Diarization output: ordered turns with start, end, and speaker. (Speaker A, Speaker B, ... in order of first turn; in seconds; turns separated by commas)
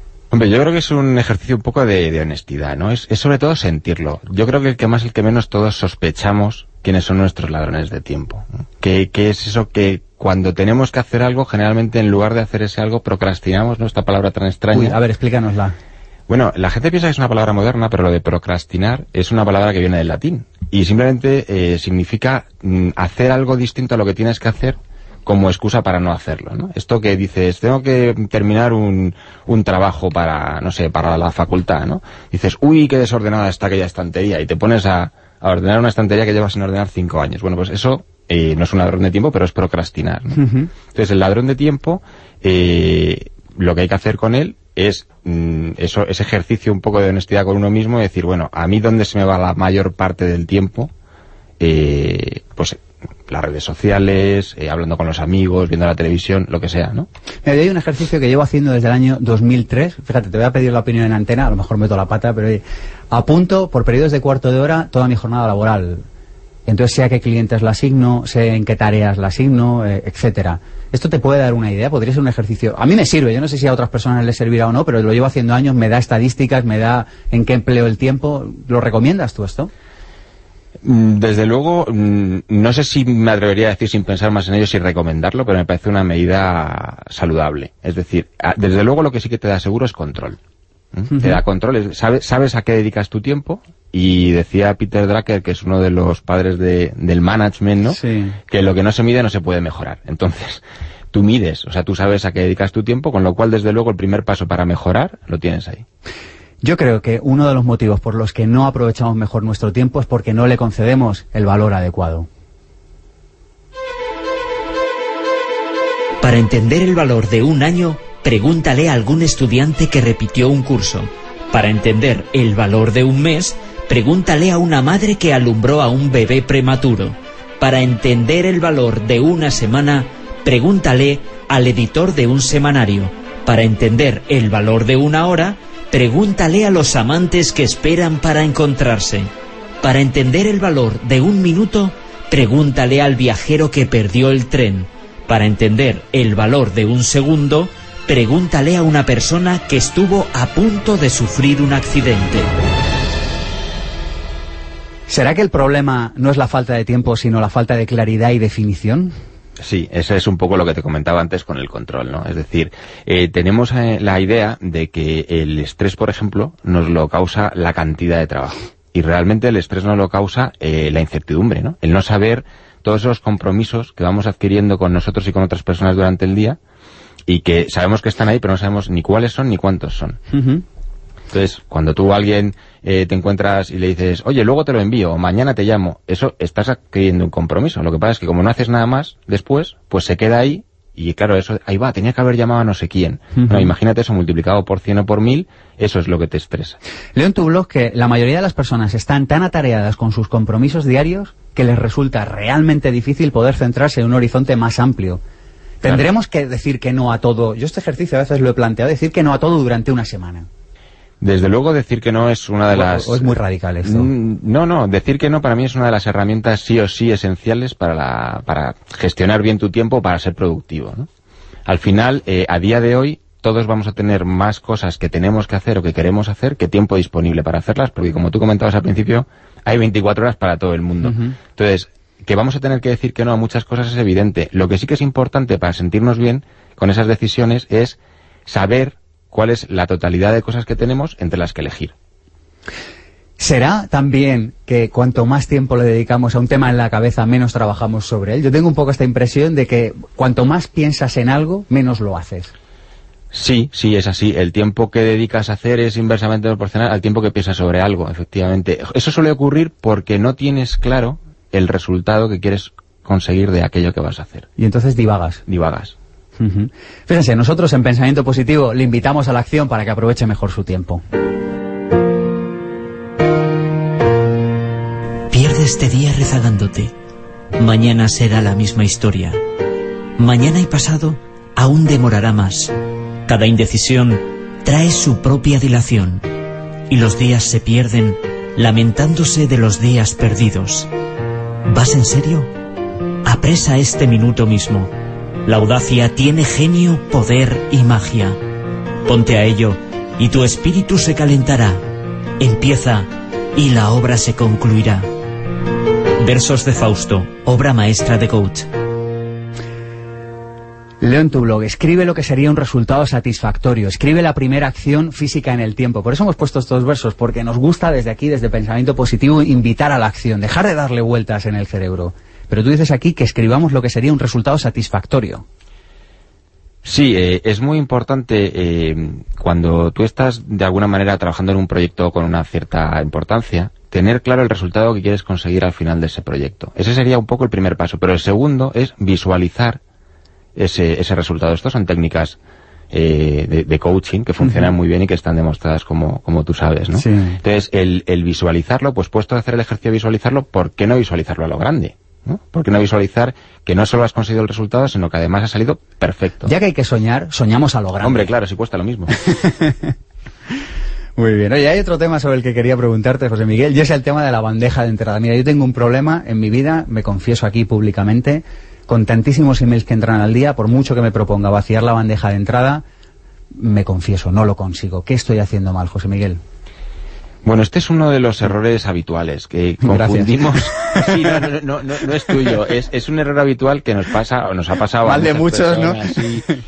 Speaker A: 0.3-15.0, Speaker B: 14.7-15.8, Speaker A: 16.3-50.9, Speaker B: 40.4-40.7, Speaker A: 51.6-57.1, Speaker B: 57.5-66.0, Speaker B: 66.7-79.7, Speaker A: 80.8-90.4, Speaker A: 90.9-105.8, Speaker B: 91.1-91.4, Speaker B: 97.9-98.4, Speaker B: 106.6-112.3, Speaker C: 116.2-139.3, Speaker C: 139.8-152.5, Speaker B: 155.1-159.1, Speaker A: 159.6-176.6, Speaker A: 177.3-180.2, Speaker B: 180.3-180.6, Speaker A: 181.3-196.8, Speaker B: 193.4-193.7, Speaker B: 197.2-205.2, Speaker B: 205.8-210.5, Speaker A: 211.2-221.1, Speaker B: 212.7-214.1, Speaker A: 221.7-241.9, Speaker B: 231.0-231.3, Speaker B: 243.4-252.5, Speaker A: 253.3-264.5, Speaker B: 264.6-265.4, Speaker A: 265.5-265.9, Speaker B: 266.4-271.0, Speaker C: 275.3-276.9, Speaker C: 277.6-279.4, Speaker C: 280.2-282.7, Speaker C: 283.3-286.3, Speaker C: 286.9-290.9, Speaker C: 291.7-292.5, Speaker C: 293.2-294.9, Speaker C: 295.5-298.4, Speaker C: 299.1-301.8, Speaker C: 302.4-305.1, Speaker C: 306.2-308.7, Speaker B: 311.0-325.4, Speaker A: 326.8-339.8, Speaker A: 340.6-342.4, Speaker A: 342.9-356.5, Speaker B: 347.0-347.4, Speaker B: 356.4-358.3, Speaker A: 358.0-359.1, Speaker B: 359.2-359.9, Speaker B: 361.2-372.8, Speaker B: 373.6-376.4, Speaker A: 377.4-386.5, Speaker B: 379.9-380.4, Speaker B: 380.9-381.4, Speaker B: 385.1-386.4